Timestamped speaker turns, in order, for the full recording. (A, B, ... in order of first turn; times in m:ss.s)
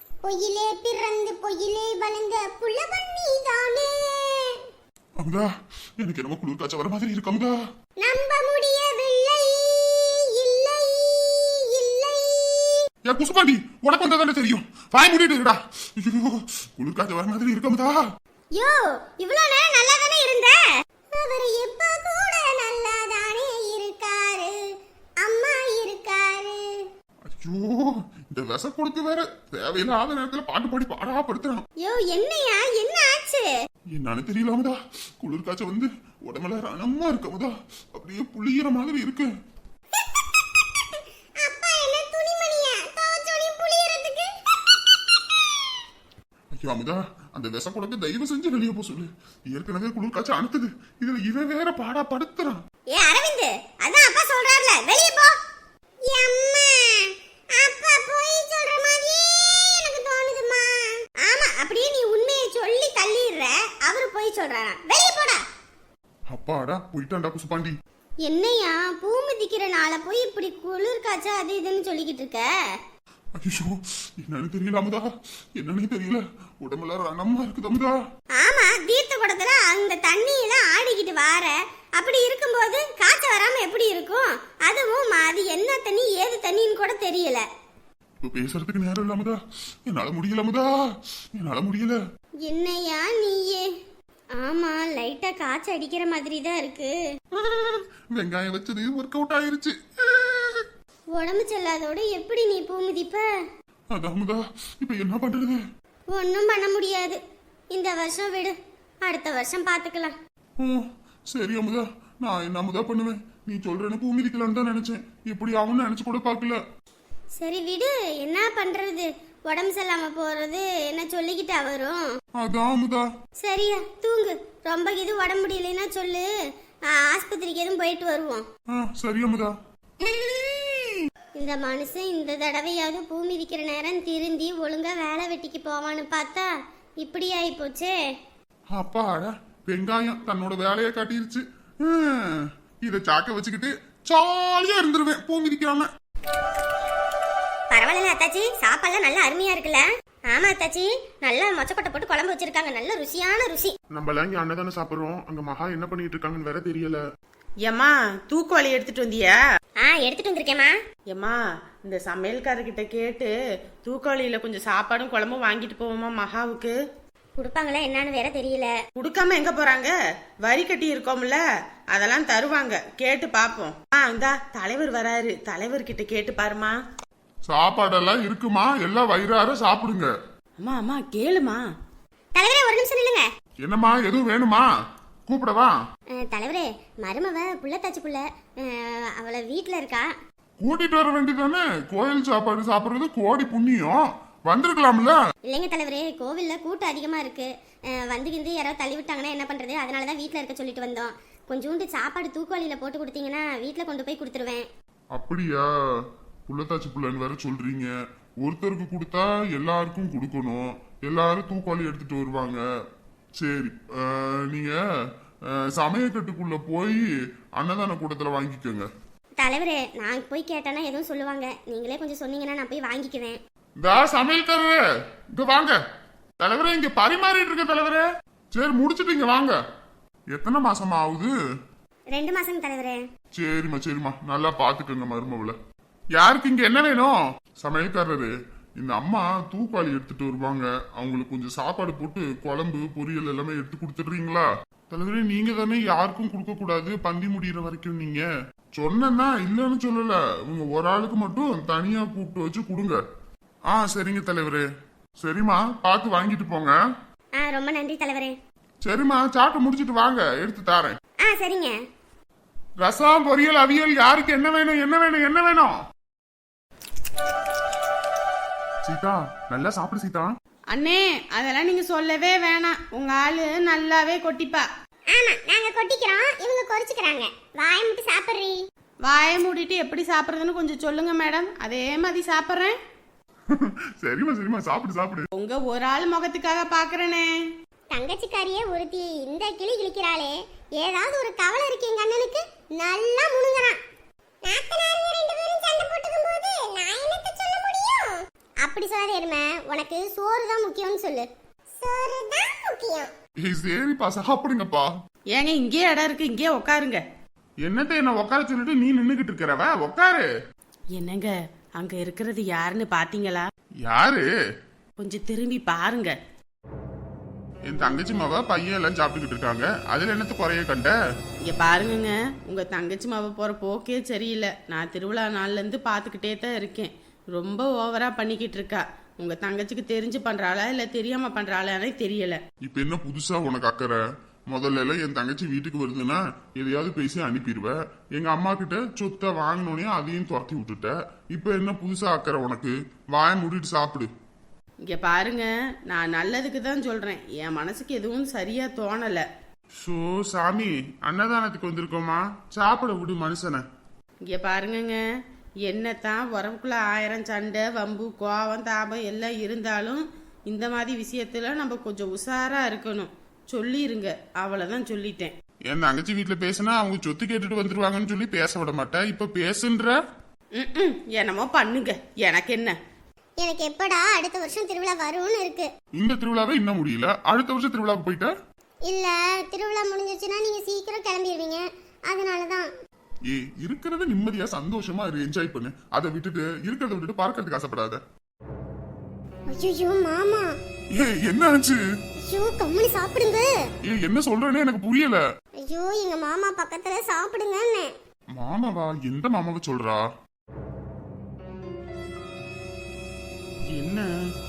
0:00.2-0:04.5 A
0:05.2-0:07.5 B
0:08.0-0:12.8 A
0:13.0-0:18.0 B
0:18.5-0:20.6 A
0:21.1-0:24.6 A
0:25.2-0:26.8 A
0:27.2-0:31.6 B
0:31.8-0:33.5 A
0:34.0-0:39.3 B
0:41.4-0:44.3 A
0:46.5-0:52.6 B
0:52.9-0:55.3 A
0:56.1-1:05.4 A
1:06.3-1:07.8 B
1:08.2-1:12.5 A
1:13.4-1:15.0 B
1:15.6-1:17.9 B
1:18.4-1:27.4 A
1:28.2-1:30.7 B
1:31.3-1:32.0 B
1:32.4-1:33.7 A
1:34.3-1:37.0 A
1:37.3-1:39.8 B
1:40.1-1:43.3 A
1:43.9-1:45.6 B
1:46.1-1:47.2 A
1:47.7-1:50.2 A
1:50.6-1:56.6 B
1:57.4-2:02.0 A
2:02.4-2:03.0 B
2:03.4-2:06.3 A
2:06.9-2:08.4 A
2:08.7-2:09.5 B
2:10.0-2:10.8 A
2:11.4-2:17.9 A
2:18.7-2:25.9 B
2:27.7-2:33.7 A
2:33.9-2:37.0 B
2:37.6-2:39.4 C
2:39.8-2:40.7 A
2:41.1-2:43.3 C
2:43.8-2:46.7 C
2:47.4-2:48.7 A
2:49.0-2:49.9 C
2:50.4-2:51.4 C
2:51.9-2:56.8 C
2:57.5-3:00.1 B
3:00.6-3:01.6 C
3:02.3-3:03.3 A
3:03.6-3:04.6 B
3:05.3-3:05.7 B
3:06.2-3:10.1 A
3:10.6-3:15.2 B
3:15.4-3:24.7 A
3:25.1-3:25.7 B
3:26.5-3:32.6 B
3:33.4-3:34.8 B
3:35.5-3:37.0 B
3:37.6-3:38.9 B
3:39.4-3:43.4 A
3:43.8-3:44.8 B
3:45.4-3:45.8 B
3:46.4-3:49.5 B
3:50.3-3:51.3 B
3:52.1-3:53.0 A
3:53.3-3:55.6 B
3:56.2-4:08.2 B
4:08.8-4:13.0 B
4:13.7-4:14.6 B
4:15.2-4:16.7 B
4:17.4-4:18.4 A
4:18.8-4:21.0 B
4:21.2-4:21.8 A
4:22.8-4:25.7 B
4:28.8-4:30.3 B
4:30.7-4:34.6 C
4:35.1-4:38.6 A
4:39.0-4:42.7 C
4:43.5-4:45.3 B
4:45.4-4:47.3 C
4:47.9-4:53.8 A
4:54.4-5:03.1 A
5:03.4-5:04.9 B
5:05.3-5:07.0 C
5:07.6-5:10.3 B
5:11.0-5:13.5 C
5:13.8-5:14.2 B
5:15.0-5:16.1 C
5:17.6-5:20.9 B
5:21.5-5:32.4 C
5:32.6-5:34.0 B
5:34.5-5:44.1 B
5:44.9-5:49.2 C
5:49.8-5:53.6 B
5:54.3-5:55.0 C
5:55.7-6:05.3 C
6:05.7-6:10.0 B
6:10.6-6:12.7 C
6:13.4-6:15.7 A
6:16.0-6:18.3 B
6:18.9-6:22.7 A
6:23.3-6:28.0 B
6:29.5-6:30.5 A
6:30.9-6:31.8 B
6:32.3-6:33.5 A
6:33.9-6:35.2 B
6:35.6-6:37.9 A
6:38.4-6:40.0 B
6:43.7-6:44.1 B